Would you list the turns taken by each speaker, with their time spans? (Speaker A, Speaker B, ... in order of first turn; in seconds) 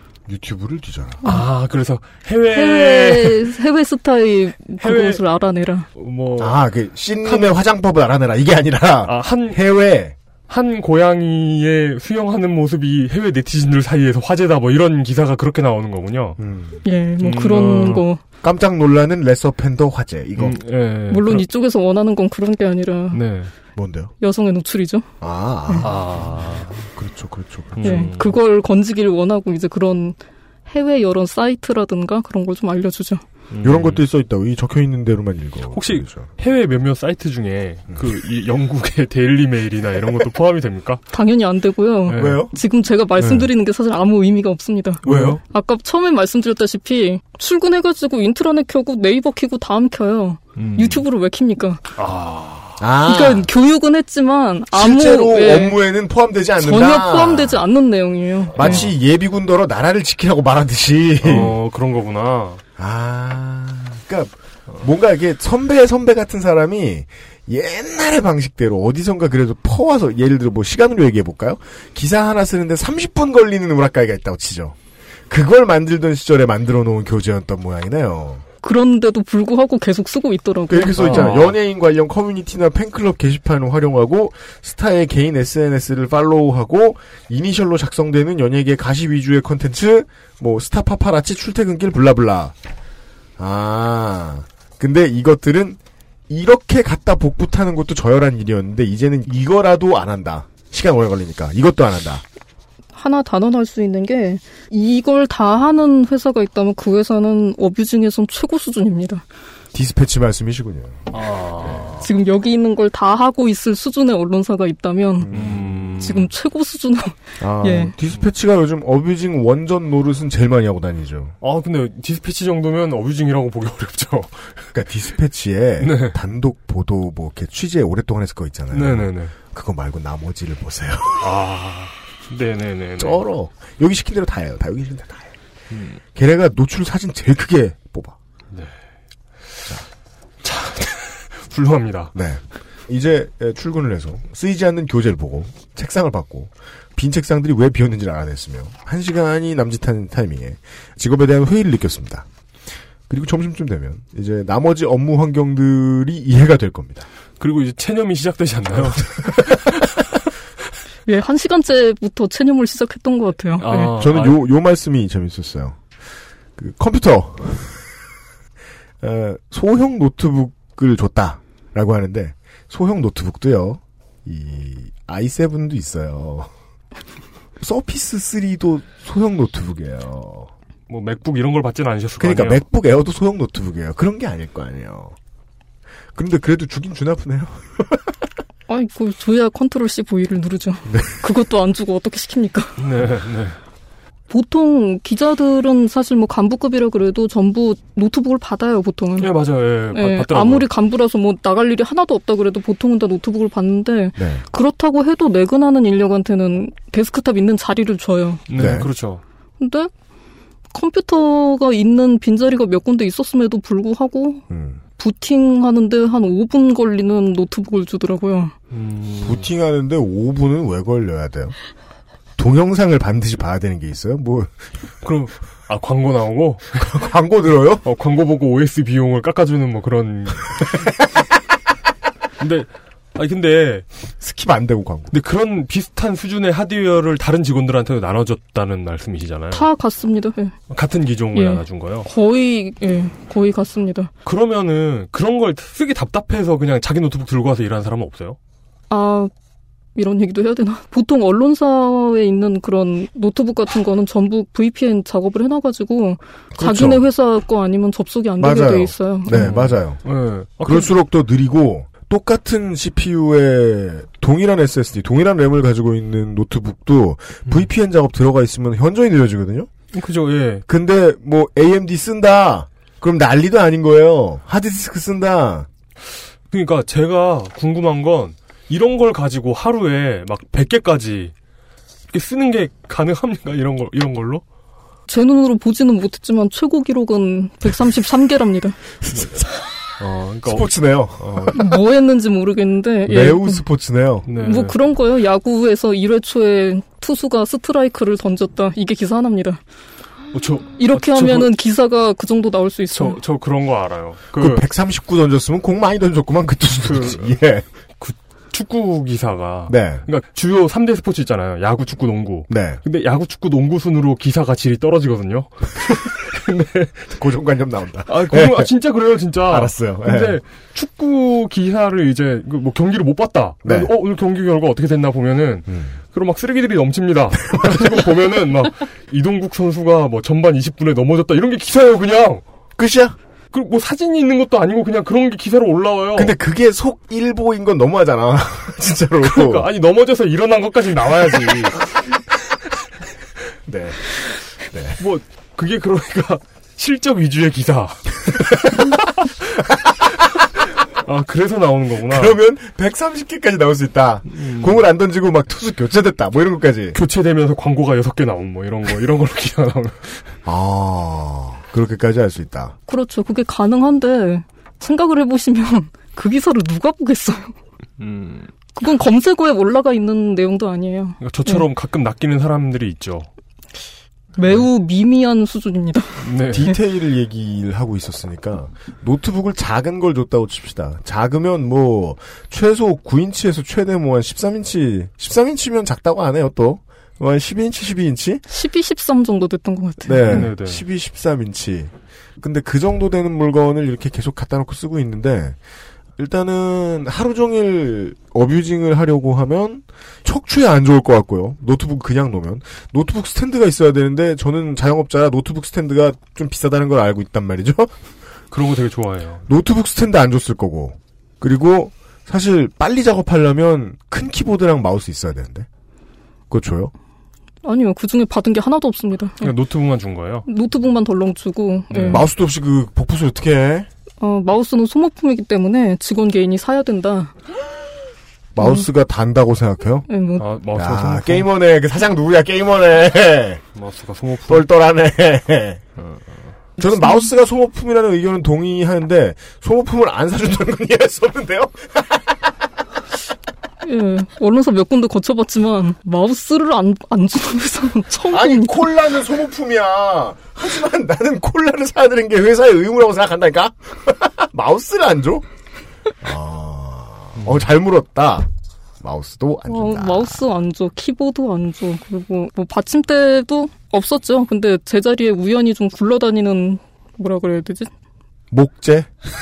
Speaker A: 0.3-1.2, 6.4-10.1, 16.4-16.8, 18.4-20.6, 23.8-24.1, 25.2-28.1, 33.6-36.3, 42.1-42.5, 43.2-43.5, 45.0-45.4, 52.8-53.5, 54.7-57.7, 58.5-61.5, 62.8-74.8, 75.3-78.4, 80.7-92.5, 93.4-102.2, 109.7-112.0, 115.2-115.8, 117.4-121.3, 124.7-131.3, 133.0-135.3, 136.1-138.2, 142.1-152.3, 153.1-157.1, 158.9-159.5, 163.9-165.8, 166.6-167.8, 169.0-176.5, 177.6-180.5, 182.2-185.2, 186.1-188.1, 190.9-191.2, 204.2-204.4, 208.6-208.9, 214.5-214.8, 219.2-221.5, 222.4-224.5, 226.7-227.8, 234.2-235.1, 256.5-257.0, 258.4-260.0, 260.6-269.7, 270.7-275.7, 290.4-291.6, 293.1-294.3, 304.3-307.6, 309.7-310.0, 312.5-312.8, 317.1-318.7, 319.4-320.4, 323.6-323.9, 325.7-326.0, 327.5-328.0, 332.8-333.2, 336.1-339.7, 343.7-344.0, 344.6-345.0, 352.1-357.0, 360.4-362.8, 376.5-388.4, 390.0-395.6, 396.2-407.9, 409.5-415.7, 416.5-416.9, 422.1-423.9, 428.5-430.1, 430.7-433.6, 434.5-435.8, 436.8-442.4, 448.3-455.4, 456.2-458.5, 459.0-460.3, 468.5-469.1
Speaker B: 1.2-3.4, 4.8-5.2, 5.9-6.6, 7.2-7.5, 9.0-9.6, 10.5-16.4, 17.2-18.0, 20.4-21.4, 23.1-23.5, 25.8-26.7, 27.7-28.4, 33.5-34.0, 35.7-41.0, 42.0-42.4, 45.0-45.4, 50.5-51.0, 52.0-52.8, 58.6-58.9, 61.2-62.6, 81.0-81.6, 111.1-112.0, 115.3-116.3, 121.4-124.5, 125.8-126.2, 128.7-129.3, 131.2-133.2, 135.7-136.0, 140.4-142.2, 157.4-160.0, 163.6-164.4, 180.9-182.6, 192.8-193.6, 199.2-200.7, 208.5-209.2, 218.7-219.5, 225.0-226.9, 227.8-230.8, 232.4-233.8, 235.1-239.7, 240.7-242.1, 244.2-248.4, 259.3-260.9, 269.9-270.6, 276.5-281.3, 282.1-284.4, 289.1-289.4, 290.0-291.6, 294.2-294.8, 300.3-301.5, 302.9-304.7, 306.8-307.3, 308.0-317.0, 318.1-332.4, 333.5-336.3, 339.2-341.8, 345.0-349.0, 351.0-352.4, 354.3-354.8, 356.9-360.2, 368.0-368.5, 371.2-373.3, 376.2-376.7, 390.2-390.8, 408.5-409.4, 419.4-420.5, 421.9-422.2, 430.4-431.5, 433.7-434.7, 436.0-436.5
Speaker C: 2.5-5.9, 16.8-18.2, 21.1-23.2, 24.2-25.1, 27.8-33.2, 41.1-51.8, 53.0-55.8, 56.6-58.8, 78.6-81.3, 102.9-109.2, 112.0-115.3, 116.0-117.9, 161.1-163.9, 188.7-192.8, 194.3-199.3, 199.9-208.4, 209.6-209.9, 210.7-214.4, 215.0-218.5, 239.5-240.6, 241.3-244.1, 248.9-249.3, 249.9-259.6, 285.1-288.8, 291.5-293.6, 294.4-299.6, 300.8-303.2, 362.9-367.5, 368.7-371.6, 374.4-376.7, 388.5-390.5, 417.6-419.5, 420.4-422.2, 424.2-427.3, 428.6-428.8, 430.1-430.5, 436.8-437.3, 443.8-448.8, 459.7-467.9